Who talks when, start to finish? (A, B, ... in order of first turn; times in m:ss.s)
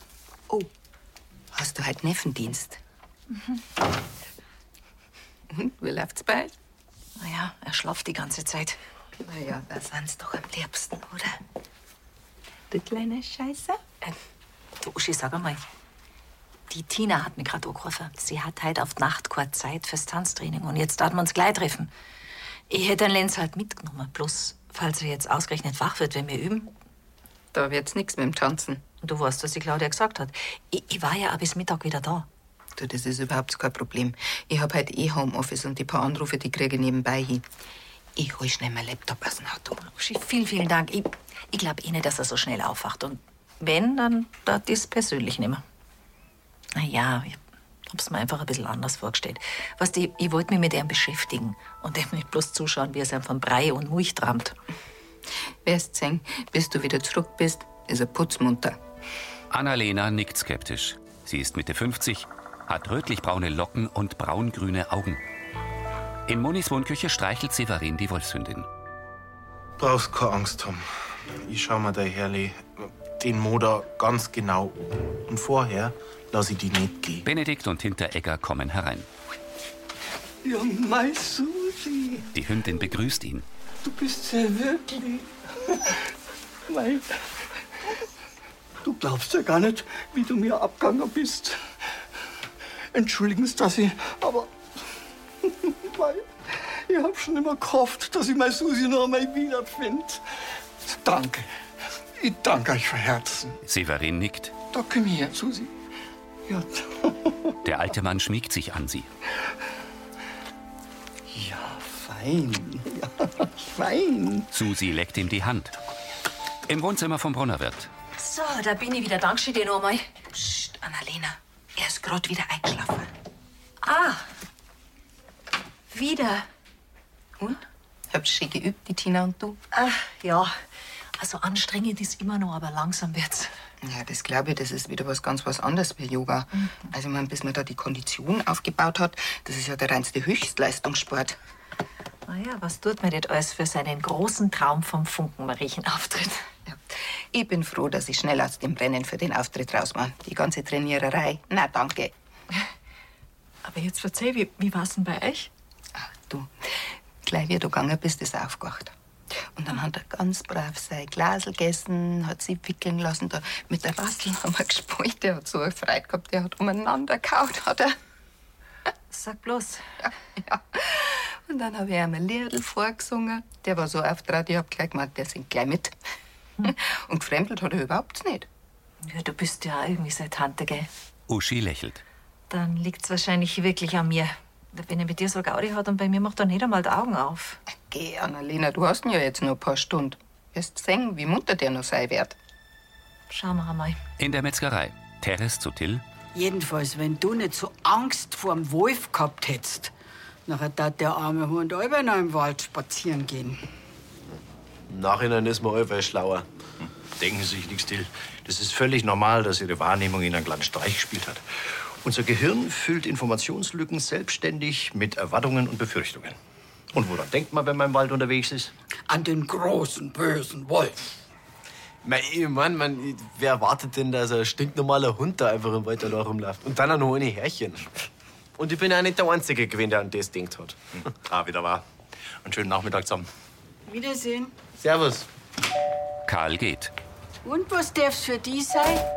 0:01.5-0:02.8 A
0:05.5-0:06.5 A
0:07.2-0:08.8 B
0:09.2-0:11.2 A
0:12.7-0:13.8 A
0:14.8-0:15.6 B
0:16.7-0:21.9 B
0:22.7-0:26.7 B
0:27.5-0:28.8 A
0:29.0-0:32.3 B
0:32.8-0:37.4 A
0:38.2-0:39.8 A
0:39.8-0:45.6 B
0:46.8-0:54.6 B
0:55.6-0:58.8 A
0:59.5-1:05.2 C
1:06.3-1:08.7 C
1:09.8-1:17.3 D
1:17.2-1:19.1 C
1:20.4-1:22.3 E
1:22.3-1:23.4 C
1:23.8-1:26.1 E
1:26.7-1:27.3 E
1:28.8-1:31.6 E
1:32.9-1:34.5 E
1:35.4-1:40.2 E
1:40.8-1:41.5 E
1:42.2-1:43.6 E
1:43.6-1:44.5 C
1:44.7-1:45.7 E
1:46.5-1:47.6 E
1:47.6-1:49.1 C
1:51.3-1:54.5 E
1:54.5-1:55.7 C
1:56.7-1:57.9 C
1:58.2-2:00.7 B
2:00.9-2:01.3 A
2:01.8-2:03.1 B
2:03.8-2:04.2 B
2:05.9-2:06.5 B
2:08.1-2:09.6 A
2:09.7-2:10.5 B
2:11.2-2:13.5 B
2:13.8-2:21.4 A
2:22.3-2:26.5 B
2:26.7-2:32.1 A
2:33.6-2:35.5 B
2:36.0-2:38.9 A
2:39.6-2:48.0 A
2:49.1-2:49.8 B
2:50.0-2:56.0 A
2:56.6-2:58.5 A
2:59.0-3:00.9 B
3:01.3-3:02.0 C
3:02.5-3:07.6 B
3:07.9-3:12.4 A
3:13.3-3:14.0 B
3:14.2-3:16.0 C
3:16.3-3:19.9 F
3:20.5-3:23.6 F
3:24.9-3:26.5 G
3:27.2-3:31.4 H
3:32.0-3:36.4 H
3:36.9-3:38.7 H
3:39.1-3:41.0 F
3:42.0-3:47.9 G
3:48.6-3:50.8 G
3:51.2-3:51.8 H
3:52.4-3:53.3 H
3:53.9-3:54.6 F
3:54.8-3:55.3 G
3:56.3-3:56.9 C
3:57.4-3:59.0 F